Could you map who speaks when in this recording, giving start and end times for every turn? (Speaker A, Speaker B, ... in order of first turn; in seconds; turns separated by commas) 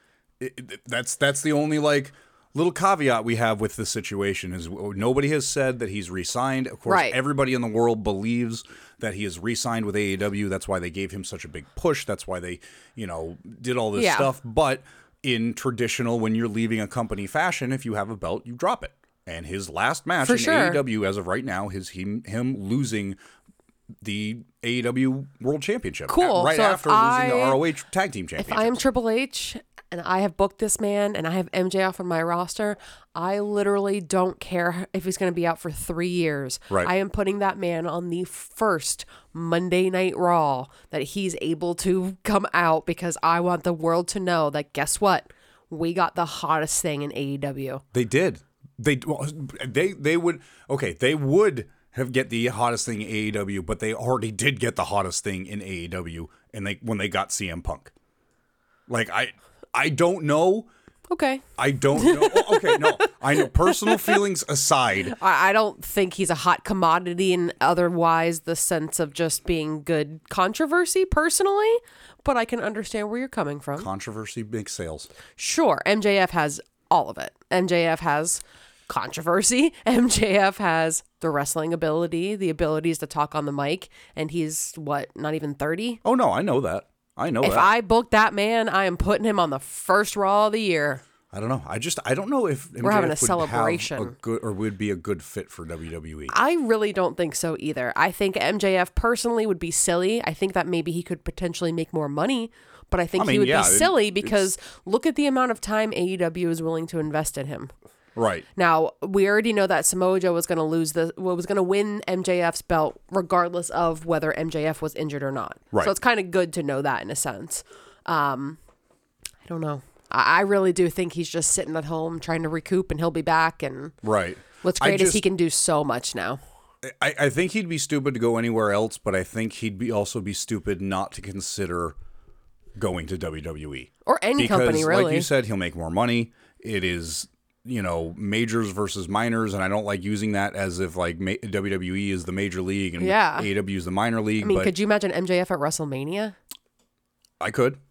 Speaker A: 0.4-23.2, Speaker B: 6.9-7.2, Speaker B: 13.9-14.3, Speaker B: 20.2-20.8, Speaker A: 24.0-28.7, Speaker B: 26.1-27.6, Speaker B: 28.4-47.8, Speaker A: 47.9-57.9, Speaker A: 58.9-60.7, Speaker B: 61.1-64.1, Speaker A: 61.6-65.2, Speaker B: 65.1-73.9, Speaker A: 73.8-75.1, Speaker B: 75.4-86.0, Speaker A: 86.0-87.7, Speaker B: 87.4-91.0, Speaker A: 91.3-96.3, Speaker B: 92.8-94.1, Speaker B: 96.3-107.7, Speaker A: 103.2-104.5, Speaker A: 108.2-108.4, Speaker B: 108.5-118.6, Speaker B: 119.4-123.9, Speaker A: 124.0-125.2, Speaker B: 124.6-126.4, Speaker A: 126.8-131.9, Speaker A: 132.8-144.7, Speaker B: 134.0-135.3, Speaker B: 143.0-143.5, Speaker B: 144.4-146.3, Speaker A: 147.4-147.8